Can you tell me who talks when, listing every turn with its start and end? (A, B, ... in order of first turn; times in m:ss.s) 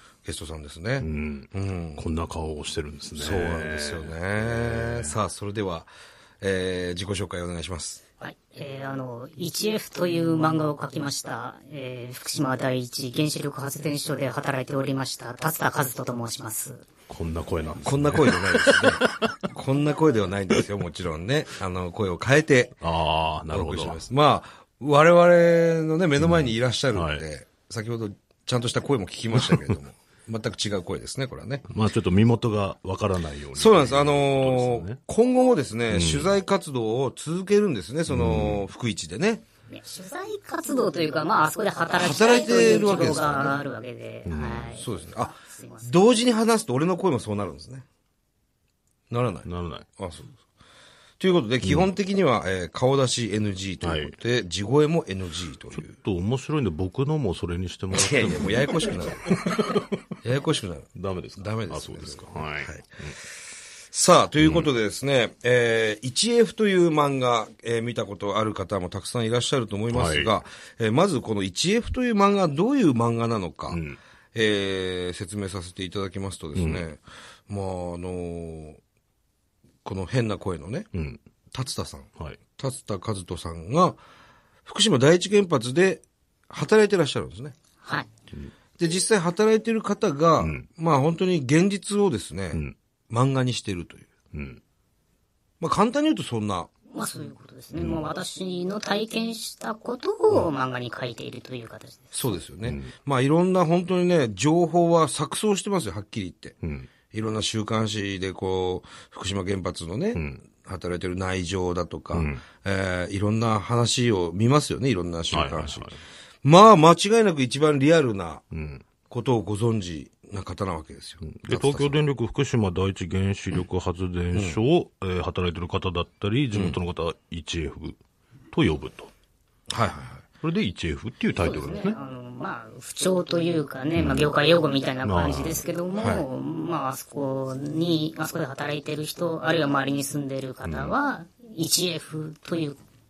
0:00.2-0:02.0 A
0:01.0-0:05.2 B
0:03.1-0:05.9 A
0:06.4-0:08.0 A
0:08.2-0:16.8 C
0:17.1-0:19.3 B
0:17.8-0:22.8 A
0:22.8-0:24.0 B
0:23.5-0:31.6 A
0:26.2-0:27.2 B
0:29.3-0:29.8 B
0:31.7-0:35.0 B
0:33.5-0:39.4 A
0:35.9-0:36.3 B
0:38.1-0:38.6 B
0:39.7-0:45.9 C
0:41.9-0:43.6 A
0:44.2-0:44.8 B
0:44.7-0:47.8 A
0:49.1-0:50.4 A
0:49.4-0:49.8 B
0:51.2-0:56.0 A
0:51.6-0:51.9 B
0:53.8-0:54.1 B
0:55.7-0:59.9 B
0:57.9-0:59.4 A
1:00.2-1:02.8 A
1:00.9-1:03.1 B
1:03.9-1:13.8 A
1:04.4-1:04.7 B
1:09.9-1:10.3 B
1:13.7-1:14.0 B
1:14.3-1:18.8 A
1:16.5-1:16.8 B
1:19.8-1:20.9 A
1:20.9-1:21.2 B
1:21.5-1:24.0 A
1:24.6-1:27.5 A
1:28.8-1:34.1 A
1:30.4-1:30.6 B
1:34.3-1:34.6 B
1:35.6-1:36.7 A
1:36.9-1:42.3 C
1:37.8-1:38.0 B
1:42.1-1:46.6 A
1:42.6-1:42.9 B
1:46.6-1:46.9 B
1:47.1-1:55.9 A
1:50.1-1:50.4 B
1:52.1-1:52.4 B
1:55.3-1:55.9 B
1:56.4-1:58.4 A
1:58.5-1:58.8 B
1:59.1-2:02.0 A
2:01.2-2:08.0 B
2:04.3-2:04.6 A
2:06.5-2:06.8 A
2:08.5-2:09.1 B
2:09.7-2:10.2 A
2:10.4-2:12.0 B
2:11.4-2:22.8 C
2:14.0-2:14.3 B
2:15.0-2:15.6 B
2:16.0-2:16.2 A
2:20.6-2:20.9 B